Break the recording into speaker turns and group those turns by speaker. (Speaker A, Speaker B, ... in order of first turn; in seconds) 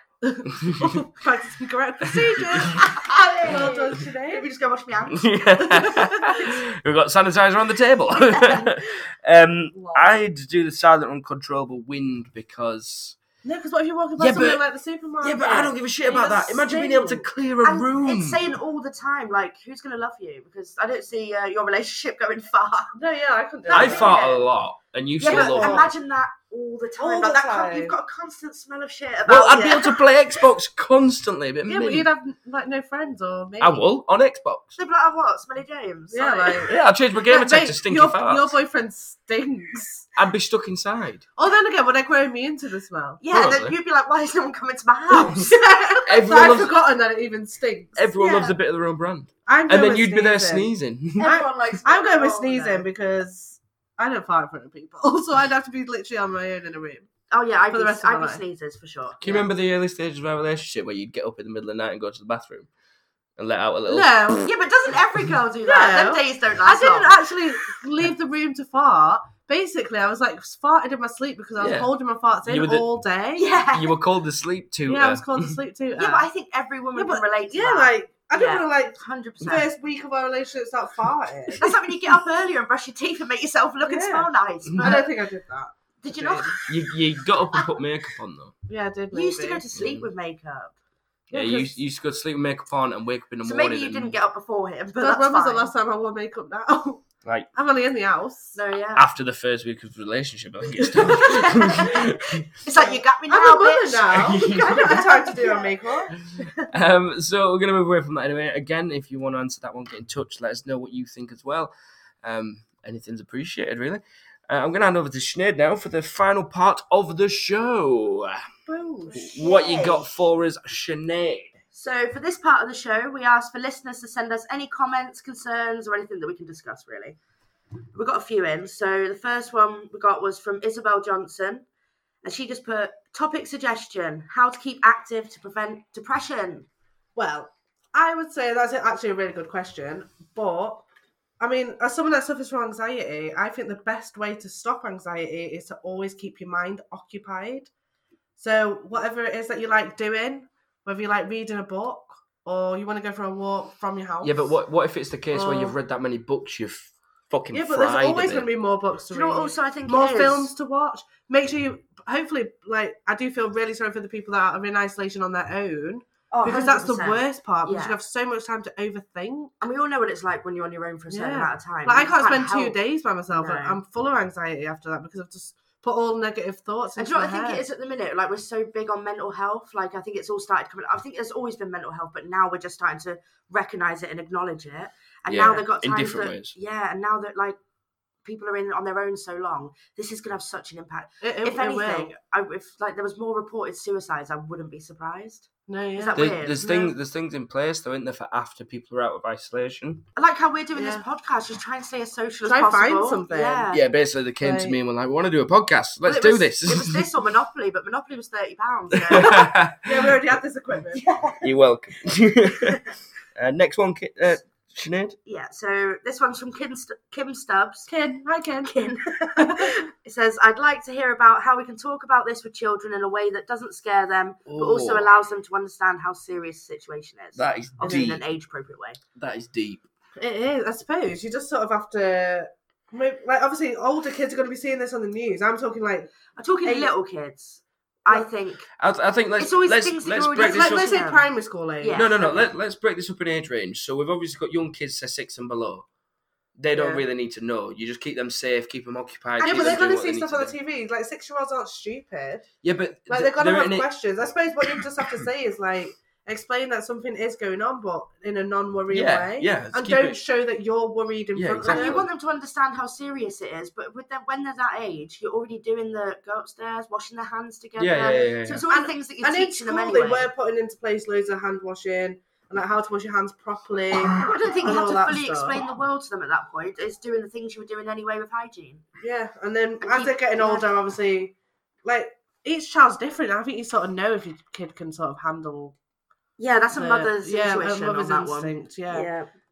Speaker A: 0.2-4.4, 5.7-6.5, 9.7-10.2, 13.4-17.2, 22.9-24.1, 25.2-25.9, 27.0-27.9, 31.6-33.8, 36.1-40.1, 41.4-43.2, 45.1-48.0, 49.5-57.1, 57.7-58.4, 63.9-64.5, 65.6-73.5, 74.9-76.3, 76.9-81.7, 83.8-86.6, 88.7-89.6, 91.3-91.7, 95.0-98.6, 101.0-101.9, 102.7-106.2, 118.7-119.4, 137.2-140.8, 141.4-147.7, 148.4-154.6, 155.3-155.8, 157.5-169.5, 171.1-177.6, 191.2-192.1, 195.7-196.6, 200.8-201.0, 202.4-203.8, 204.4-204.8, 209.2-211.0, 217.9-219.7, 230.2-236.9, 240.4-242.2, 246.7-247.0, 249.4-252.5, 253.1-262.0, 268.7-275.6, 279.0-281.3, 281.8-285.7, 286.8-289.1
Speaker B: 0.6-1.0, 2.0-2.9, 5.1-13.2, 14.2-14.6, 15.2-18.4, 23.7-25.9, 29.3-32.1, 33.6-34.7, 36.6-38.6, 40.2-41.3, 43.3-43.7, 45.2-45.5, 46.0-46.8, 48.0-51.3, 59.2-62.7, 63.4-64.4, 71.6-71.9, 72.5-72.8, 73.7-75.6, 84.7-85.0, 86.7-88.5, 89.7-90.1, 91.3-94.1, 99.0-102.5, 104.1-105.0, 106.7-111.7, 112.2-118.4, 119.1-121.5, 154.2-158.5, 185.2-186.5, 196.2-200.0, 203.7-207.1, 208.9-210.2, 211.4-212.8, 213.3-215.2, 224.4-225.1, 227.3-228.2, 229.2-229.8, 238.8-241.0, 241.9-245.8, 246.6-250.5, 252.6-253.9, 254.6-255.2, 258.9-260.2, 261.3-262.1, 267.8-268.6
Speaker C: 2.7-5.9, 8.1-8.7, 17.6-22.9, 23.7-24.5, 25.2-30.0, 34.8-36.6, 43.2-45.5, 48.1-48.6, 51.2-52.9, 57.3-59.5, 64.5-67.2, 73.3-73.9, 76.0-79.7, 81.6-85.1, 86.0-86.9, 89.1-90.7, 93.4-95.7, 98.5-99.1, 101.2-102.1, 102.6-105.8, 119.2-120.1, 121.7-127.2, 127.9-131.6, 132.2-136.7, 159.1-160.5, 166.3-168.0, 169.6-172.8, 173.3-173.8, 177.0-187.6, 188.2-196.9, 200.2-203.8, 206.0-209.4, 210.9-211.5, 215.2-217.9, 219.4-229.0, 236.3-238.7, 239.4-241.3, 241.8-242.5, 249.4-249.7, 261.7-270.3, 274.1-278.8, 279.8-280.7, 286.4-289.3